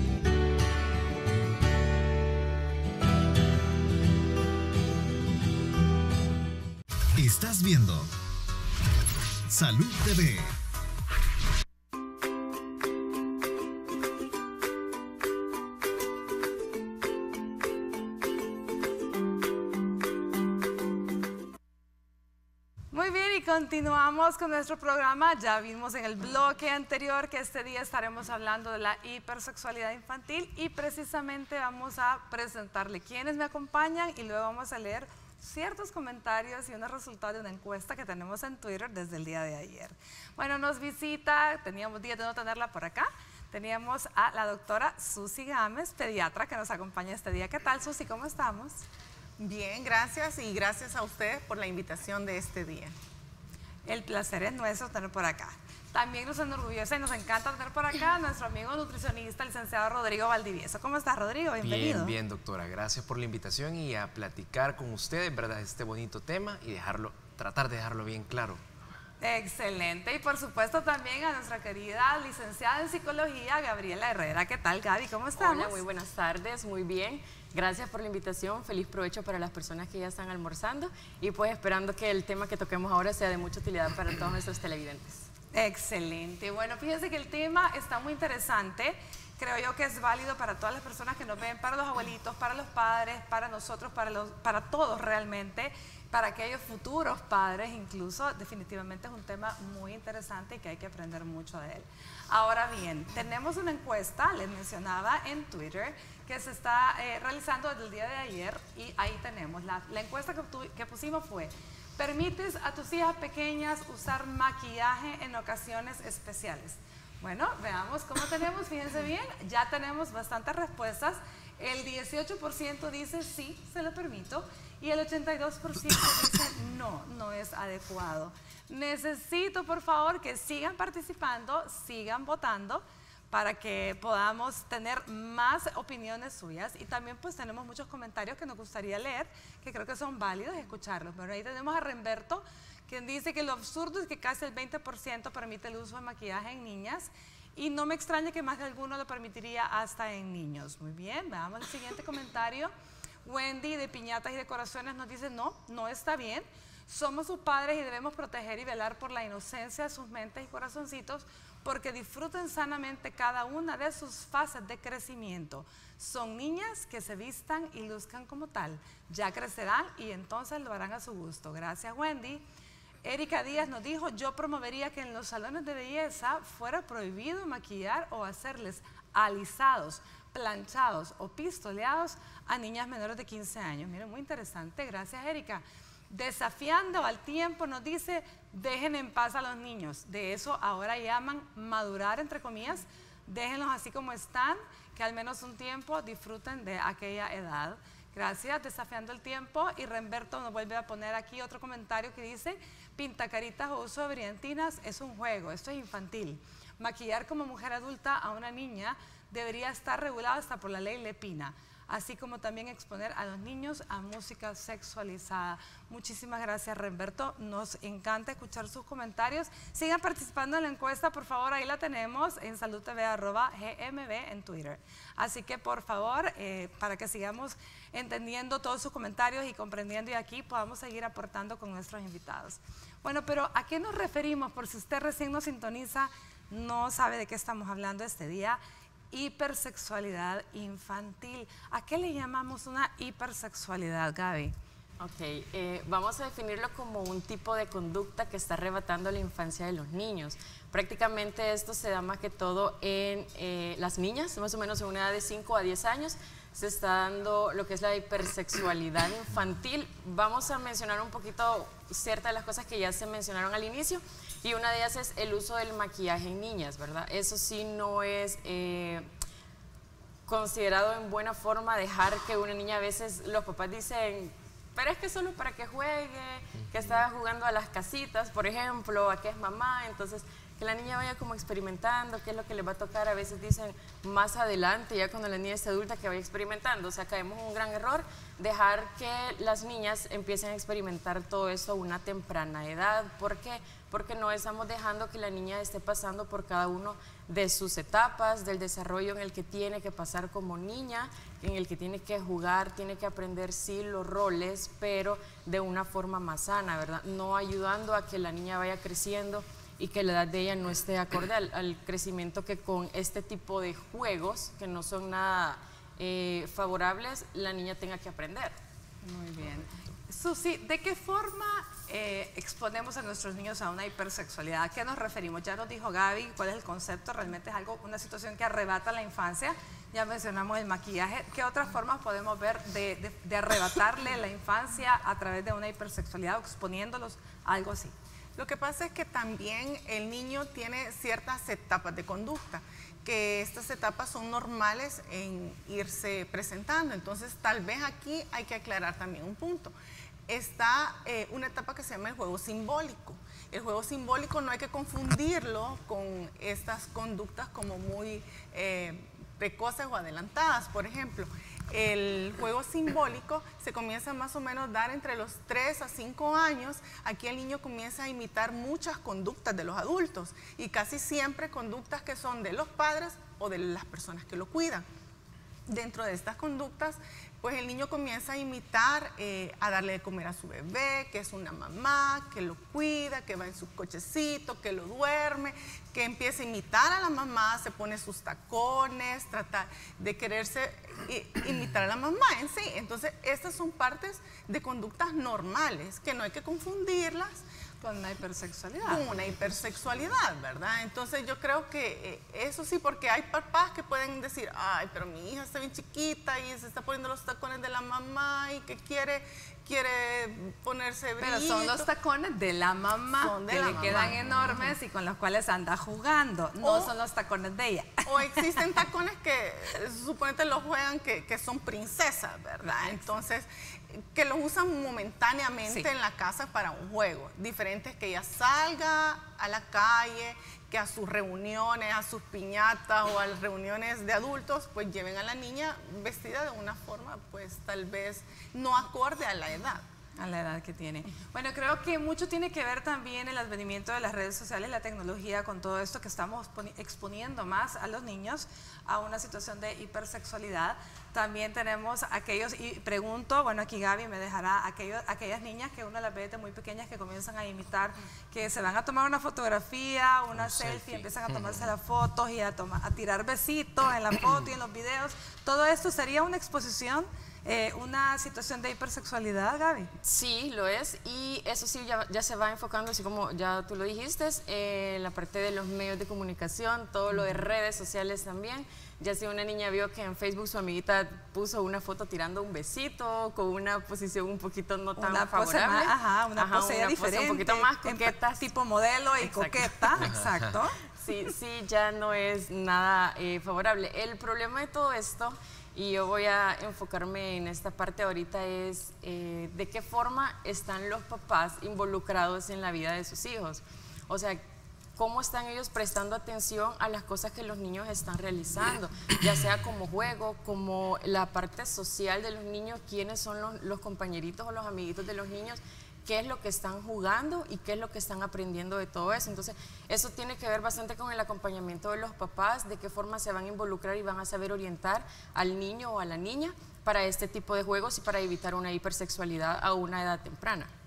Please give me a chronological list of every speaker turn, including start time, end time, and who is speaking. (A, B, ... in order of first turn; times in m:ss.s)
0:07.2-0:08.1 A
0:09.5-0:10.6 A
0:22.9-0:48.8 B
0:49.4-0:52.9 C
0:53.9-1:02.2 B
1:01.6-1:08.6 D
1:09.2-1:15.8 B
1:15.4-1:25.3 E
1:25.5-2:32.7 B
2:33.2-2:52.4 B
2:53.0-3:58.6 B
3:59.1-4:04.6 B
4:05.0-4:29.1 E
4:30.3-5:18.6 E
4:36.6-4:37.0 D
5:19.0-5:37.9 B
5:38.4-5:49.7 C
5:50.3-6:14.8 C
6:15.7-6:37.4 C
6:37.8-6:39.0 B
6:38.8-6:51.9 C
6:51.2-6:58.6 B
6:53.2-6:54.7 C
6:53.9-6:54.5 D
6:56.6-6:56.9 C
6:58.0-7:19.8 C
7:02.6-7:03.0 B
7:20.2-7:49.9 B
7:40.3-7:41.7 D
7:44.3-7:44.5 D
7:50.0-8:08.5 E
8:05.0-8:10.8 B
8:09.2-8:10.1 E
8:10.0-8:10.6 D
8:11.0-8:24.4 E
8:25.0-8:50.7 E